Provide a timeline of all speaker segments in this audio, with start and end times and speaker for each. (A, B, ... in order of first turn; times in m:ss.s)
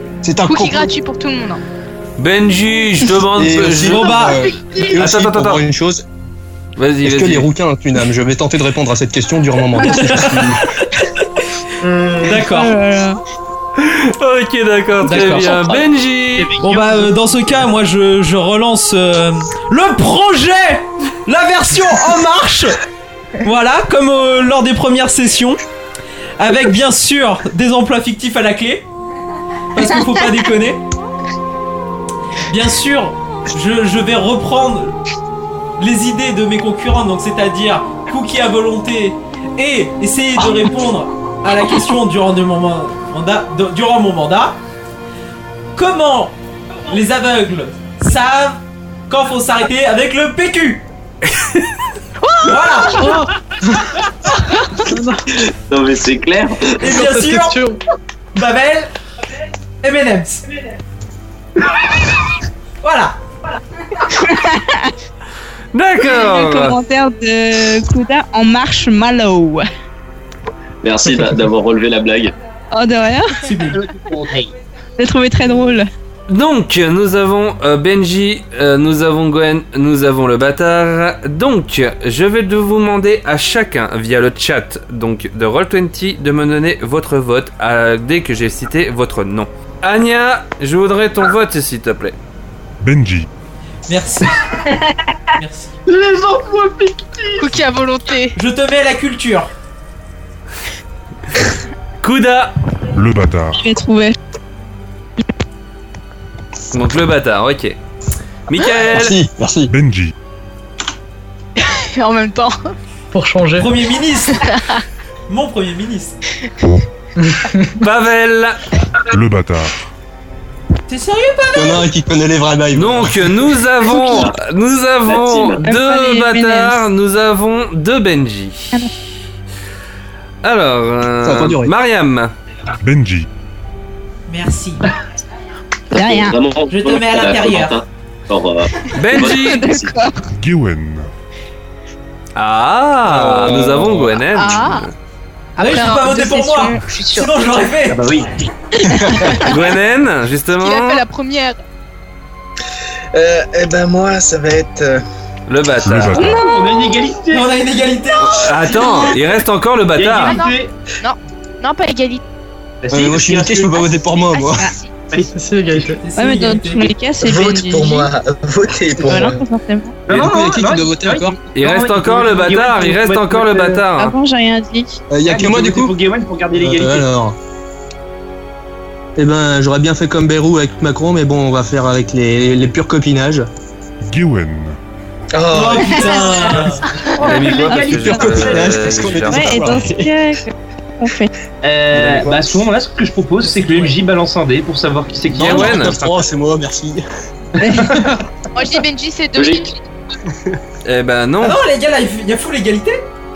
0:00.2-0:00.9 A
0:00.4-0:01.6 B
0:02.2-0:04.1 C
0:03.3-0:06.0 A
0:03.9-0:04.5 D
0:03.9-0:04.8 E
0:04.9-0:05.6 C
0:06.8-0:07.5 C
0:07.0-0:10.6 A
0:10.0-0:10.6 D
0:11.8-0:12.3 F
0:12.2-0:12.8 D
0:12.4-0:13.2 G
0:13.8-0:16.5 C
0:15.1-0:15.6 D
0:15.1-0:15.8 E
0:16.4-0:17.6 E
0:16.6-0:22.8 D
0:23.4-0:25.6 D
0:26.4-0:28.9 D
0:29.8-0:30.8 D
0:32.5-0:35.0 D
0:35.8-0:44.6 D
0:45.8-0:46.4 D
0:46.9-0:50.8 D
0:51.4-0:51.6 C
0:52.4-0:53.1 D
0:52.9-0:53.3 H
0:54.8-0:55.2 H
0:55.6-0:56.8 I
0:56.8-0:57.7 D
0:56.8-0:57.8 H
0:58.4-0:58.9 D
0:59.8-1:00.4 D
1:02.8-1:03.2 D
1:04.1-1:04.9 G
1:05.7-1:06.8 C
1:06.0-1:09.7 G
1:10.8-1:12.3 I
1:12.7-1:13.5 G
1:13.4-1:13.8 D
1:13.7-1:14.5 E
1:15.0-1:15.9 G
1:16.3-1:32.2 C
1:32.8-1:33.3 J
1:33.9-1:34.6 D
1:35.4-1:35.8 D
1:35.9-1:37.5 E
1:37.4-1:38.4 B
1:38.4-1:39.5 D
1:42.0-1:42.6 C
1:42.9-1:43.6 J
1:43.6-1:44.2 G
1:46.7-1:47.8 C
1:48.5-1:49.2 C
1:48.7-1:49.7 A
1:49.7-1:50.1 J
1:51.6-1:52.7 B
1:53.1-1:53.7 H
1:53.6-1:54.4 D
1:55.3-1:56.2 D
1:57.8-1:58.6 C
1:59.1-1:59.9 J
2:00.9-2:01.9 D
2:01.5-2:03.4 A
2:02.7-2:08.8 C
2:03.8-2:04.4 I
2:05.1-2:05.6 I
2:05.6-2:06.8 G
2:10.4-2:12.3 C
2:11.2-2:11.7 A
2:12.8-2:13.3 J
2:14.3-2:14.9 D
2:15.9-2:16.4 G
2:15.9-2:20.0 I
2:16.7-2:17.8 D
2:19.0-2:19.7 C
2:19.1-2:20.3 G
2:20.3-2:21.1 J
2:22.4-2:25.0 C
2:23.3-2:23.9 A
2:24.3-2:24.9 B
2:25.6-2:28.0 D
2:25.6-2:27.4 B
2:27.9-2:28.4 E
2:29.4-2:31.0 C
2:30.6-2:31.6 B
2:33.1-2:35.0 F
2:35.5-2:36.3 C
2:35.8-2:36.4 J
2:36.2-2:36.6 G
2:36.2-2:37.6 E
2:37.3-2:39.1 D
2:38.2-2:40.4 C
2:40.0-2:40.7 E
2:40.2-2:42.2 B
2:42.8-2:43.8 E
2:42.9-2:44.7 A
2:44.3-2:44.9 B
2:45.1-2:46.0 E
2:45.3-2:46.0 H
2:46.0-2:46.9 D
2:46.1-2:48.1 G
2:47.2-2:49.4 F
2:49.0-2:50.0 G
2:50.1-2:53.8 E
2:50.1-2:51.4 A
2:51.6-2:54.2 C
2:54.0-2:55.0 G
2:55.1-2:56.0 A
2:55.2-2:57.1 E
2:56.6-2:57.4 A
2:59.2-3:03.5 A
3:04.0-3:04.8 J
3:05.3-3:06.7 F
3:05.5-3:06.8 D
3:07.0-3:08.8 E
3:07.2-3:09.8 C
3:07.7-3:08.4 G
3:08.0-3:10.1 A
3:09.2-3:11.3 G
3:11.6-3:15.9 E
3:13.4-3:13.9 D
3:15.3-3:17.0 A
3:15.4-3:16.2 C
3:17.6-3:18.1 G
3:18.6-3:19.8 B
3:19.4-3:19.7 I
3:20.8-3:21.6 C
3:21.4-3:23.0 D